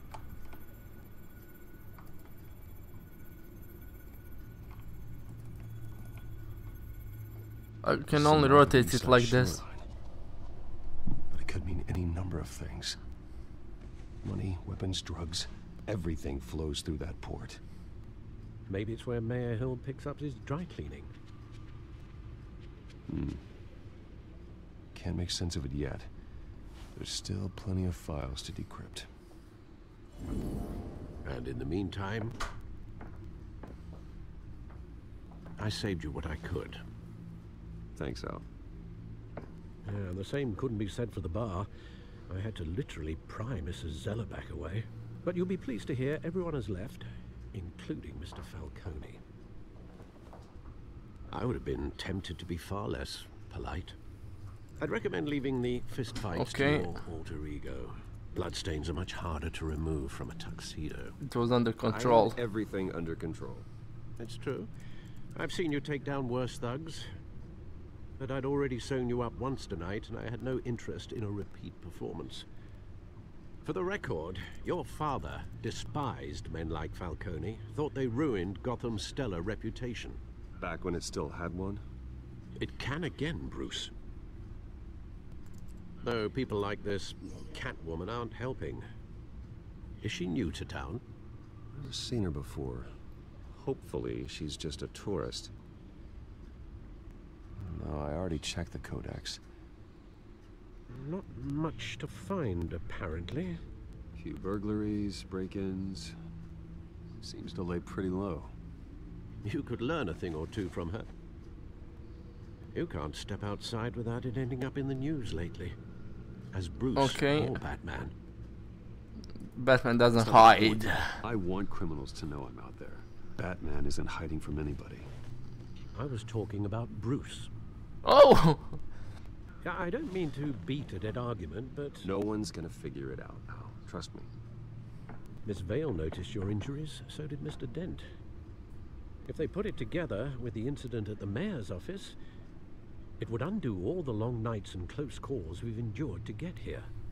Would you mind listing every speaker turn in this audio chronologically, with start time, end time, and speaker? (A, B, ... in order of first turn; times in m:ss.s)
0:07.8-0:09.6 A
0:08.1-0:09.9 B
0:11.3-0:13.0 B
0:14.2-0:17.6 B
0:18.7-0:21.1 C
0:23.1-0:23.4 B
0:24.9-0:26.1 B
0:26.9-0:29.1 B
0:31.2-0:32.4 C
0:35.6-0:36.8 C
0:38.0-0:38.5 B
0:39.8-0:41.7 C
0:42.3-0:49.2 C
0:51.3-0:54.0 C
0:54.8-1:01.2 C
0:56.3-0:56.9 A
1:01.2-1:02.4 A
1:01.9-1:03.7 B
1:04.2-1:04.7 C
1:05.4-1:07.1 C
1:08.2-1:12.4 C
1:13.6-1:20.2 C
1:20.6-1:21.8 B
1:22.6-1:23.9 C
1:26.0-1:28.8 C
1:30.0-1:31.0 C
1:31.7-1:32.9 B
1:33.5-1:35.5 B
1:37.6-1:39.4 B
1:40.9-1:43.6 C
1:44.2-1:46.2 B
1:47.2-1:48.5 B
1:49.4-1:51.1 C
1:52.7-1:55.8 C
1:56.5-1:58.1 C
1:57.0-1:57.6 A
1:59.6-2:01.2 A
2:00.2-2:05.1 B
2:05.9-2:07.5 C
2:08.0-2:08.8 A
2:09.6-2:12.1 C
2:12.0-2:14.3 B
2:15.4-2:18.1 C
2:19.3-2:22.2 C
2:23.2-2:26.9 C